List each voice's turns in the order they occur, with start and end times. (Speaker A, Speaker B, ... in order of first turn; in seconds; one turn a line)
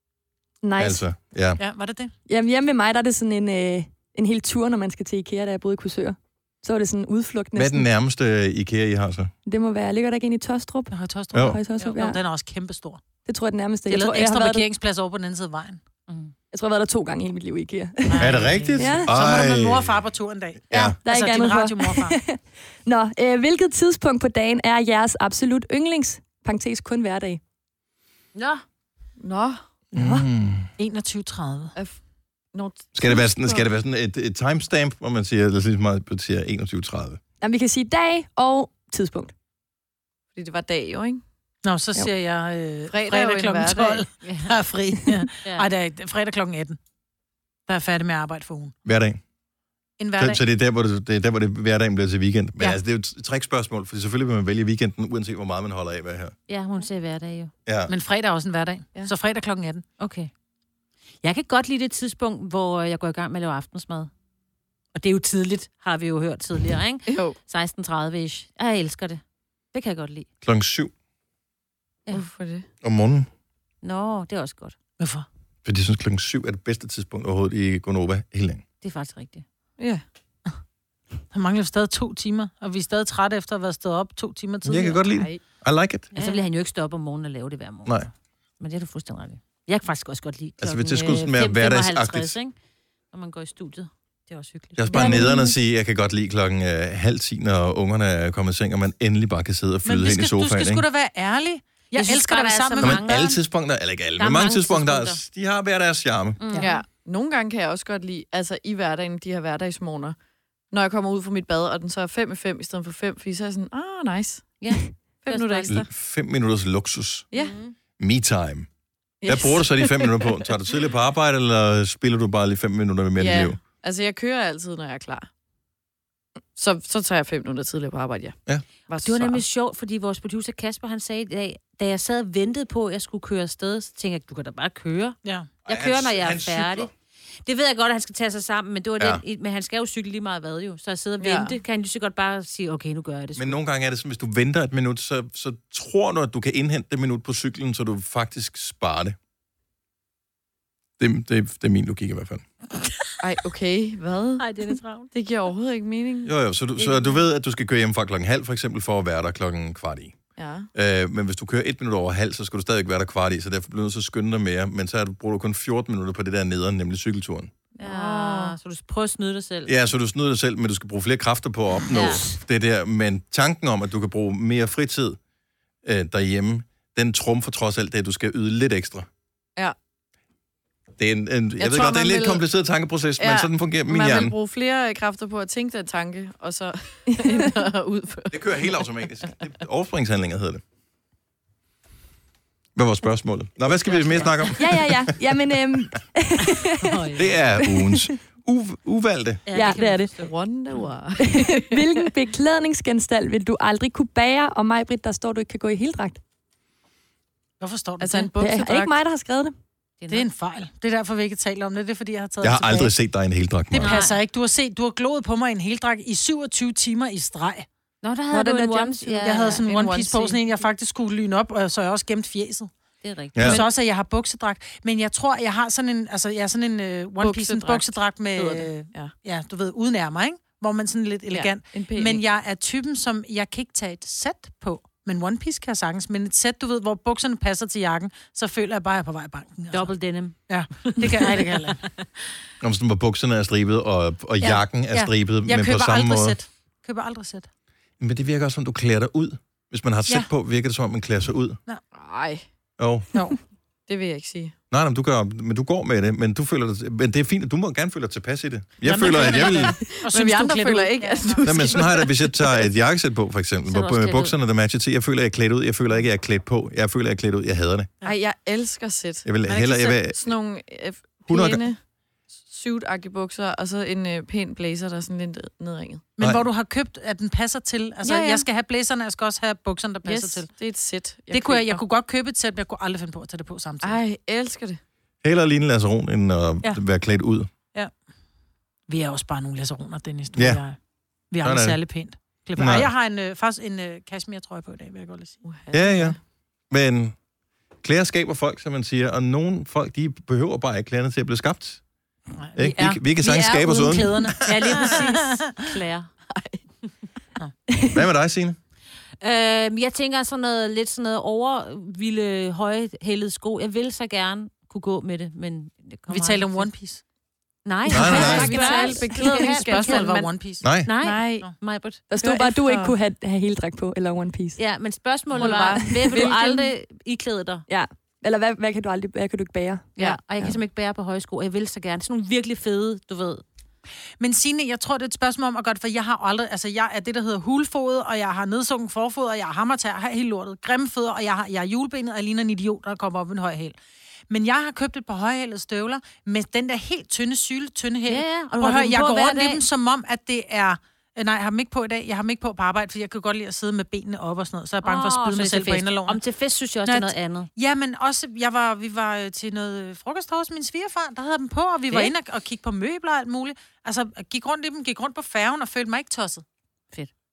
Speaker A: 0.6-1.0
Speaker B: 0.8-1.6
Speaker C: 1.6-2.1
Speaker A: 2.3-7.9
Speaker B: 7.5-9.3
Speaker A: 9.5-12.2
Speaker C: 10.9-13.0
Speaker B: 11.3-11.6
Speaker A: 13.2-14.7
Speaker C: 13.9-15.8
Speaker D: 16.1-16.3
Speaker A: 16.5-19.1
Speaker C: 18.1-22.2
Speaker B: 18.2-19.9
Speaker B: 20.7-21.0
Speaker A: 20.7-27.4
Speaker D: 28.4-28.6
Speaker E: 29.2-29.6
Speaker A: 29.9-30.3
Speaker B: 29.9-30.7
Speaker C: 30.8-31.8
Speaker E: 32.5-33.7
Speaker B: 33.0-37.2
Speaker A: 37.4-39.3
Speaker E: 40.4-41.2
Speaker C: 41.6-46.8
Speaker E: 42.9-44.1
Speaker D: 44.2-44.5
Speaker C: 47.7-48.7
Speaker B: 48.9-49.2
Speaker C: 50.0-50.4
Speaker B: 50.2-56.4
Speaker D: 56.5-57.5
Speaker B: 57.7-57.9
Speaker C: 57.9-59.8
Speaker D: 60.0-60.3
Speaker D: 61.2-64.1
Speaker D: 65.0-69.2
Speaker E: 67.1-67.4
Speaker D: 69.7-70.3
Speaker B: 70.4-70.9
Speaker E: 72.1-72.7
Speaker B: 72.8-73.3
Speaker D: 73.8-74.8
Speaker C: 75.0-75.3
Speaker B: 75.7-78.6
Speaker D: 78.8-79.4
Speaker C: 81.3-85.0
Speaker B: 84.6-86.1
Speaker E: 85.0-85.4
Speaker D: 86.2-88.0
Speaker D: 88.6-92.5
Speaker B: 90.6-92.3
Speaker D: 93.1-95.3
Speaker B: 94.8-100.8
Speaker A: 94.9-95.5
Speaker C: 99.8-103.1
Speaker D: 101.9-103.4
Speaker B: 102.8-106.4
Speaker D: 104.2-105.2
Speaker D: 106.4-106.8
Speaker E: 106.6-110.2
Speaker E: 110.7-114.6
Speaker D: 114.6-115.8
Speaker E: 115.2-115.8
Speaker B: 115.7-117.3
Speaker E: 117.3-117.6
Speaker D: 117.3-117.8
Speaker B: 118.0-118.7
Speaker E: 119.2-120.4
Speaker B: 119.3-123.6
Speaker E: 123.2-125.3
Speaker E: 126.6-128.4
Speaker E: 128.9-129.4
Speaker D: 129.0-136.9
Speaker C: 135.2-135.6
Speaker B: 135.7-136.9
Speaker D: 137.4-143.6
Speaker E: 141.2-141.6
Speaker B: 143.4-149.2
Speaker B: 151.0-152.5
Speaker E: 153.2-156.3
Speaker D: 154.4-155.1
Speaker B: 156.2-160.2
Speaker D: 156.8-157.1
Speaker E: 160.4-160.7
Speaker B: 160.8-167.5
Speaker D: 167.8-169.8
Speaker E: 167.8-168.6
Speaker B: 169.7-175.2
Speaker D: 171.9-172.4
Speaker B: 175.8-179.1
Speaker B: 181.0-184.4
Speaker E: 181.6-182.4
Speaker E: 183.2-188.8
Speaker B: 188.3-190.6
Speaker B: 192.8-195.8
Speaker D: 193.8-194.6
Speaker A: 194.6-197.0
Speaker D: 196.8-197.4
Speaker B: 197.2-199.4
Speaker A: 197.6-198.1
Speaker D: 199.5-200.9
Speaker A: 199.5-200.1
Speaker E: 200.2-202.0
Speaker A: 201.2-206.2
Speaker C: 207.6-208.3
Speaker E: 208.0-209.0
Speaker A: 208.4-209.6
Speaker D: 210.0-210.3
Speaker C: 210.1-212.9
Speaker B: 212.4-214.0
Speaker C: 213.7-217.7
Speaker D: 213.8-214.2
Speaker D: 218.0-219.6
Speaker E: 218.3-218.8
Speaker C: 219.2-222.7
Speaker E: 219.5-220.4
Speaker D: 223.0-223.7
Speaker B: 223.4-223.6
Speaker C: 223.4-239.9
Speaker E: 227.2-229.1
Speaker E: 231.3-232.2
Speaker D: 239.7-241.9
Speaker C: 240.5-241.8
Speaker B: 242.6-246.4
Speaker C: 244.4-247.5
Speaker B: 248.0-251.6
Speaker E: 251.9-252.4
Speaker B: 252.8-253.1
Speaker E: 253.9-254.6
Speaker B: 254.7-259.8
Speaker C: 258.8-262.1
Speaker E: 259.1-262.4
Speaker B: 261.4-267.9
Speaker D: 263.7-264.3
Speaker E: 268.1-269.4
Speaker B: 269.2-270.4
Speaker C: 269.5-270.0
Speaker E: 270.0-271.8
Speaker B: 271.3-271.6
Speaker E: 272.4-276.1
Speaker C: 276.2-280.5
Speaker E: 278.0-278.5
Speaker E: 280.0-281.8
Speaker C: 281.3-284.0
Speaker E: 283.8-284.8
Speaker B: 285.2-287.5
Speaker C: 288.9-290.8
Speaker B: 290.4-290.6
Speaker C: 291.3-295.4
Speaker B: 291.4-291.8
Speaker B: 292.6-292.9
Speaker E: 295.4-296.2
Speaker B: 295.7-296.2
Speaker B: 296.7-297.1
Speaker B: 297.8-301.8
Speaker C: 302.4-305.7
Speaker B: 302.6-304.7
Speaker D: 304.4-306.1
Speaker E: 306.3-306.6
Speaker B: 307.9-308.6
Speaker D: 309.2-316.7
Speaker C: 316.1-317.0
Speaker D: 317.6-320.3
Speaker E: 317.9-320.3
Speaker B: 317.9-318.6
Speaker C: 318.1-320.8
Speaker B: 320.6-320.9
Speaker D: 320.8-322.0
Speaker E: 321.0-321.5
Speaker A: 322.1-324.6
Speaker E: 322.2-322.9
Speaker D: 324.6-327.6
Speaker E: 325.3-326.7
Speaker A: 325.8-326.3
Speaker A: 327.7-329.9
Speaker D: 330.0-333.4
Speaker C: 334.2-343.8
Speaker C: 344.3-356.2
Speaker D: 348.1-349.6
Speaker D: 354.8-357.5
Speaker C: 356.9-366.4